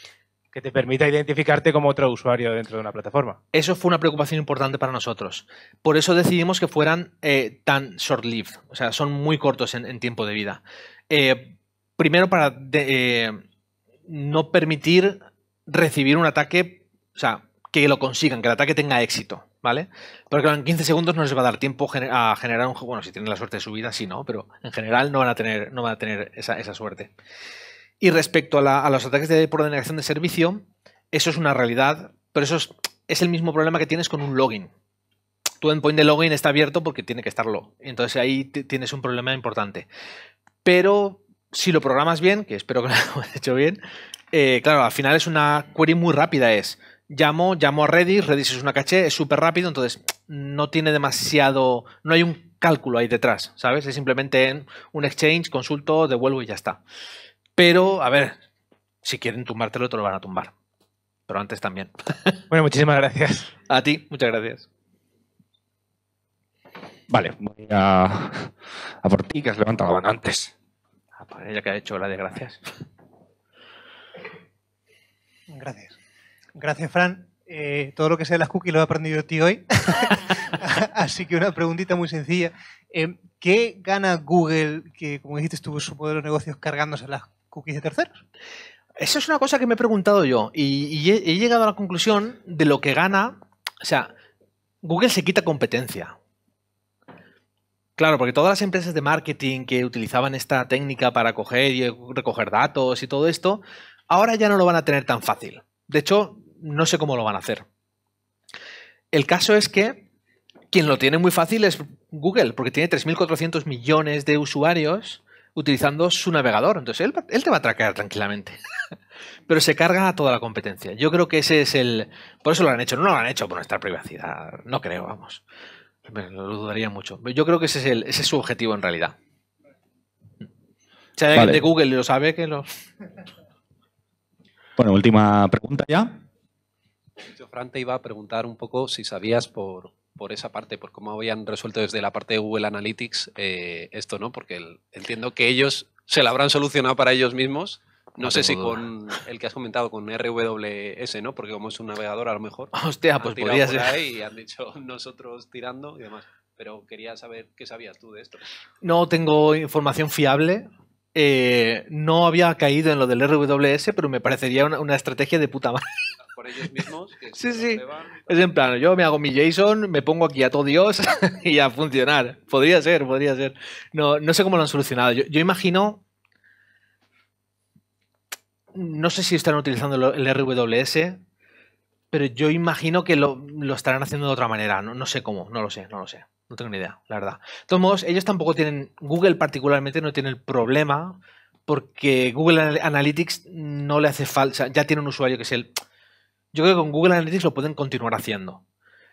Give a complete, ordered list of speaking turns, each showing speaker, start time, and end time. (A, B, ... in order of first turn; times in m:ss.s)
0:00.5-0:03.4 A
0:03.5-0:13.4 B
0:14.1-0:27.1 B
0:28.0-0:34.7 B
0:35.6-0:39.9 B
0:40.6-0:43.8 B
0:44.3-0:56.8 B
0:57.6-0:58.4 B
0:59.0-1:00.5 B
1:01.3-1:02.4 B
1:02.5-1:03.5 A
1:03.7-1:04.7 B
1:07.1-1:10.5 C
1:11.2-1:12.6 B
1:15.5-1:15.9 D
1:16.6-1:28.1 D
1:29.0-1:34.1 B
1:34.8-1:36.1 B
1:38.0-1:47.6 B
1:49.1-1:50.1 B
1:50.7-1:58.6 B
1:59.5-2:05.4 B
2:06.0-2:09.2 B
2:11.2-2:12.7 B
2:11.3-2:11.6 C
2:14.8-2:16.2 C
2:17.2-2:38.4 E
2:28.2-2:28.8 B
2:32.7-2:34.0 B
2:38.8-2:45.8 B
2:46.3-2:48.4 E
2:47.3-2:56.0 B
2:58.7-3:01.2 B
3:02.1-3:15.7 B
3:16.5-3:18.6 B